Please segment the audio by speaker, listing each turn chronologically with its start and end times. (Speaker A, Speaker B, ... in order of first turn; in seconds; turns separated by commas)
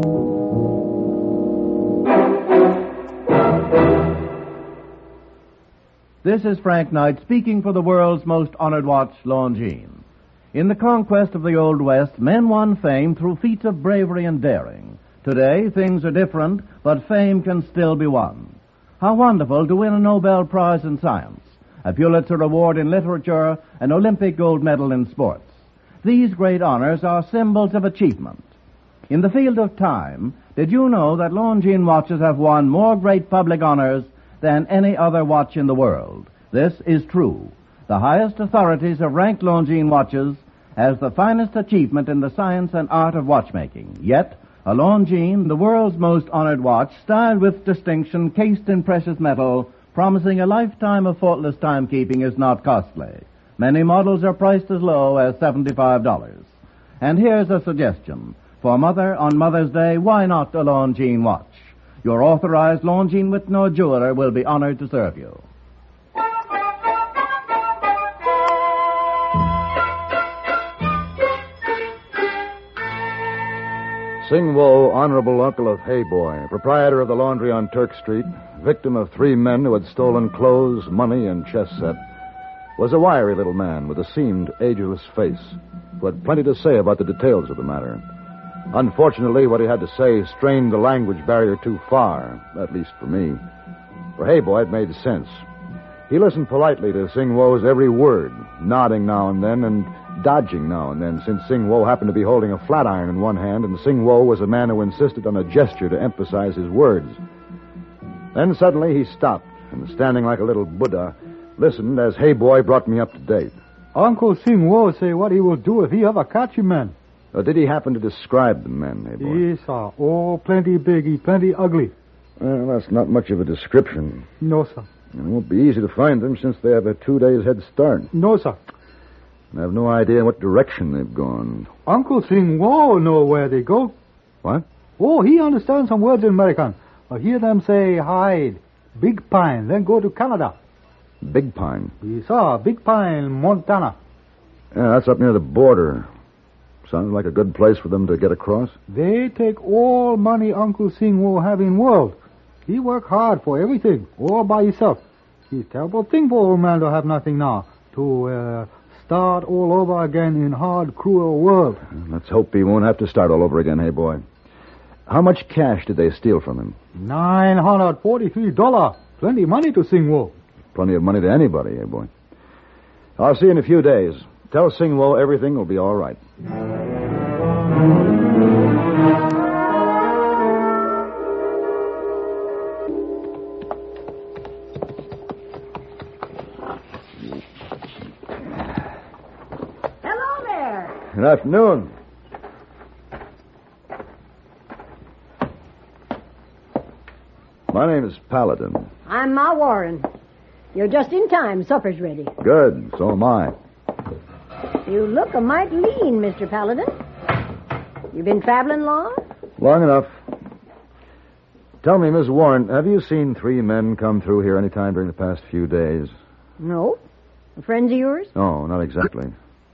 Speaker A: 6.2-10.0, Speaker A: 10.5-25.5, Speaker A: 26.0-28.5, Speaker A: 29.1-65.4, Speaker B: 74.2-82.0, Speaker B: 82.8-88.0, Speaker B: 88.7-93.4, Speaker B: 94.2-95.5, Speaker B: 96.1-107.2, Speaker B: 108.3-113.6, Speaker C: 114.0-116.9, Speaker B: 117.3-119.4, Speaker C: 119.2-121.9, Speaker B: 122.4-124.3, Speaker C: 124.4-124.9, Speaker B: 125.1-128.1, Speaker C: 128.1-128.6, Speaker B: 129.5-131.7, Speaker C: 131.9-133.9, Speaker C: 135.0-140.6, Speaker B: 141.2-141.9, Speaker C: 142.0-144.0, Speaker B: 144.7-146.1, Speaker B: 146.8-148.8, Speaker C: 148.9-161.8, Speaker B: 161.9-164.2, Speaker B: 165.1-166.8, Speaker C: 167.0-170.3, Speaker B: 170.7-172.1, Speaker B: 173.2-176.2, Speaker D: 190.0-191.0, Speaker B: 191.1-191.9, Speaker B: 197.7-198.9, Speaker D: 199.1-200.1, Speaker D: 200.7-202.3, Speaker B: 202.4-203.6, Speaker D: 204.9-206.9, Speaker D: 208.1-209.2, Speaker B: 209.6-210.2, Speaker B: 211.8-216.1, Speaker D: 216.6-217.0, Speaker D: 217.6-218.3, Speaker B: 218.3-219.3